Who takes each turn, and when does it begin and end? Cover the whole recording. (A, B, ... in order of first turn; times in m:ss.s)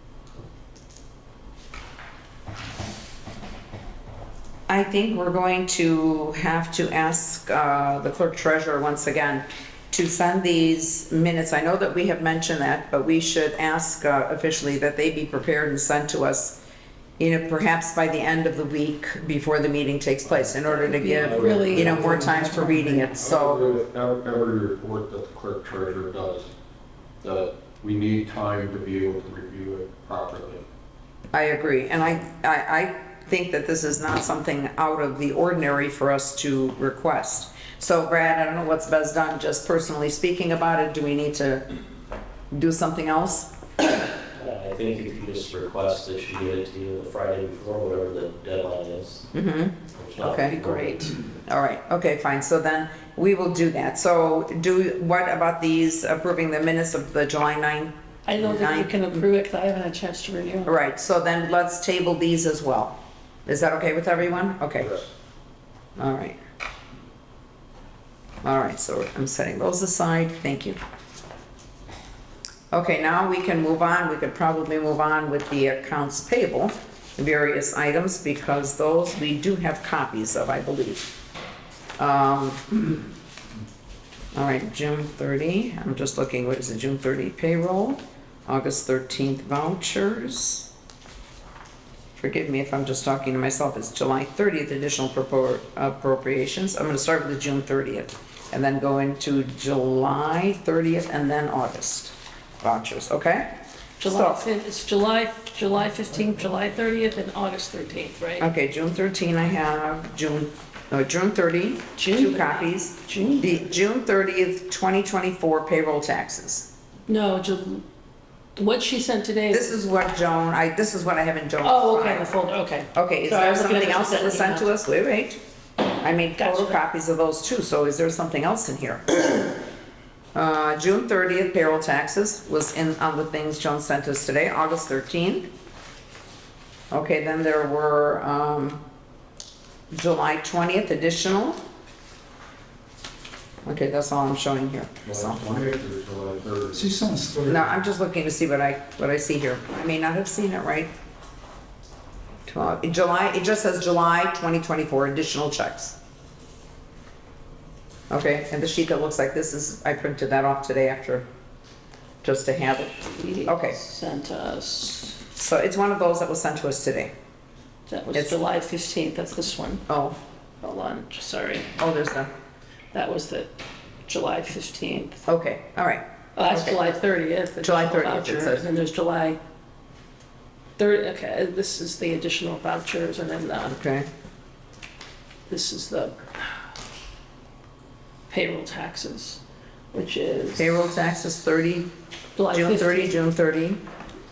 0:04.7-0:16.6 A
0:17.2-0:23.6 A
0:20.6-0:22.4 B
0:20.9-0:22.2 C
0:21.4-0:23.1 D
0:23.0-0:26.5 C
0:27.2-0:30.6 C
0:31.3-0:41.6 A
0:42.5-0:43.5 A
0:44.3-0:49.3 E
0:49.3-0:50.6 A
0:49.9-0:51.0 E
0:50.2-0:51.1 B
0:51.5-0:59.2 A
0:58.2-1:00.7 B
1:00.6-1:05.0 A
1:06.0-1:06.4 A
1:08.4-1:10.8 A
1:12.7-1:21.1 A
1:22.0-1:22.8 A
1:24.3-1:30.6 A
1:32.2-1:44.4 A
1:44.0-1:48.4 B
1:48.4-1:56.7 A
1:52.0-1:53.7 B
1:57.1-1:57.8 B
1:58.6-1:59.8 B
1:59.5-2:02.3 A
2:01.6-2:04.7 B
2:02.9-2:05.4 A
2:06.0-2:09.5 A
2:06.4-2:06.8 B
2:10.3-2:15.5 A
2:16.9-2:18.8 A
2:19.9-2:21.6 A
2:23.6-2:25.4 A
2:25.0-2:27.0 C
2:26.7-2:27.7 D
2:27.4-2:30.9 A
2:32.5-2:35.9 A
2:38.1-2:41.2 A
2:42.2-2:43.8 A
2:43.1-2:45.2 B
2:45.4-2:47.1 A
2:47.9-2:49.8 B
2:49.9-2:50.2 A
2:50.6-2:51.7 B
2:51.8-2:52.3 A
2:52.9-2:53.5 B
2:54.0-2:55.2 B
2:55.3-2:56.8 A
2:56.4-2:59.4 B
2:57.6-2:58.6 A
3:00.8-3:03.8 B
3:03.7-3:04.1 A
3:05.5-3:06.5 B
3:08.3-3:09.4 B
3:09.9-3:10.8 B
3:10.6-3:11.9 A
3:12.4-3:13.2 B
3:12.5-3:13.8 A